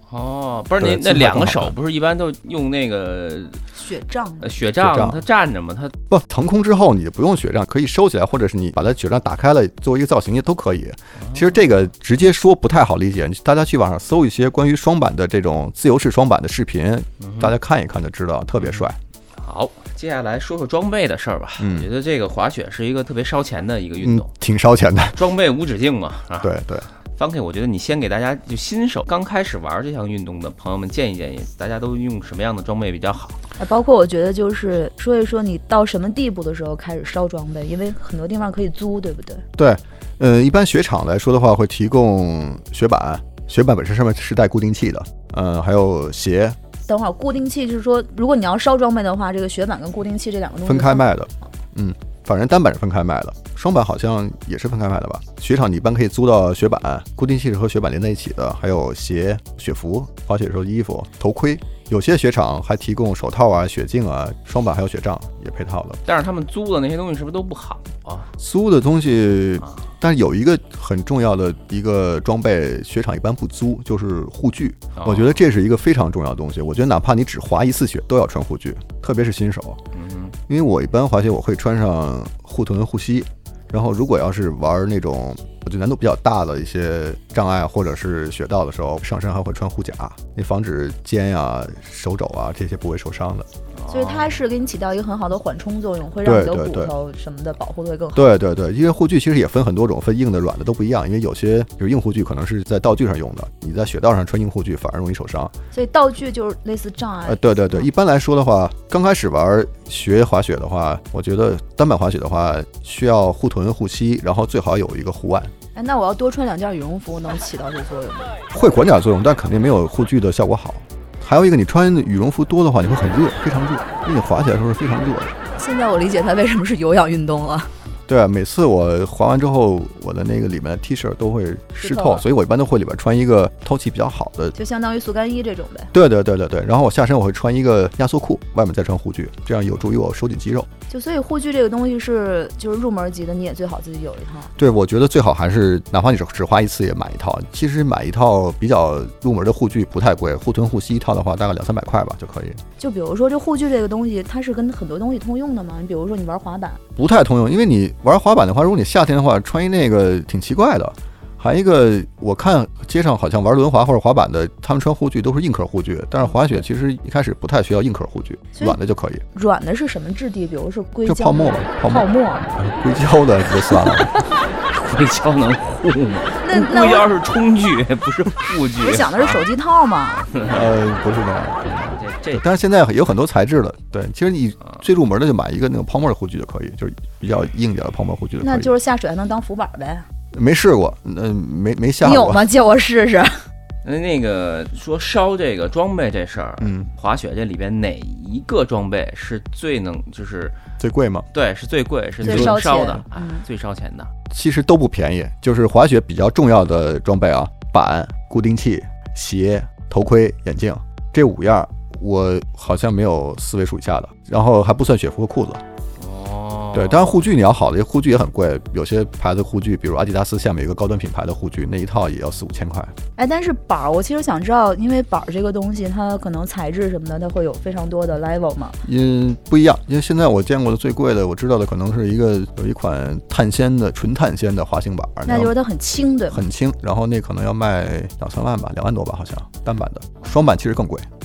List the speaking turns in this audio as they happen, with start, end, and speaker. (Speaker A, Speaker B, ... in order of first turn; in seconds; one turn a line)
Speaker A: 0.1-3.6
Speaker B: 0.8-1.8
Speaker C: 3.7-4.5
Speaker A: 4.4-5.9
Speaker B: 4.8-5.2
Speaker B: 6.1-19.0
Speaker A: 11.2-11.9
Speaker A: 17.2-17.5
Speaker A: 18.6-18.9
Speaker A: 19.4-24.3
Speaker B: 21.6-21.9
Speaker B: 24.0-25.2
Speaker A: 25.1-26.5
Speaker B: 26.4-26.9
Speaker A: 27.1-33.4
Speaker C: 33.6-39.4
Speaker B: 39.6-46.6
Speaker C: 46.9-51.0
Speaker B: 50.6-66.0
Speaker A: 66.0-68.3
Speaker B: 68.4-79.8
Speaker A: 75.0-75.4
Speaker A: 79.9-80.3
Speaker B: 80.5-93.5
Speaker A: 93.8-94.4
Speaker C: 93.9-98.4
Speaker B: 96.2-96.9
Speaker B: 98.1-105.5
Speaker C: 105.7-107.9
Speaker B: 107.2-115.5
Speaker C: 115.7-118.3
Speaker B: 118.5-125.3
Speaker C: 125.6-127.7
Speaker B: 128.1-134.5
Speaker C: 131.7-132.2
Speaker C: 134.5-135.9
Speaker B: 135.9-140.7
Speaker C: 140.9-144.5
Speaker B: 144.6-152.6
Speaker C: 152.8-156.8
Speaker B: 156.9-169.2
Speaker C: 169.3-172.5
Speaker B: 171.1-174.2
Speaker A: 174.0-179.4
Speaker C: 176.4-177.1
Speaker C: 178.8-180.3
Speaker A: 180.3-180.7
Speaker B: 180.4-188.7
Speaker A: 181.7-182.4
Speaker C: 188.4-190.0
Speaker B: 190.3-192.4
Speaker C: 192.0-193.4
Speaker A: 193.8-200.6
Speaker B: 196.6-196.9
Speaker B: 200.8-201.3
Speaker A: 201.3-204.1
Speaker B: 202.2-202.9
Speaker C: 202.2-203.4
Speaker B: 204.3-215.6
Speaker A: 216.0-217.2
Speaker B: 216.7-222.9
Speaker C: 223.2-228.8
Speaker B: 228.8-235.5
Speaker C: 235.2-236.4
Speaker B: 236.3-241.1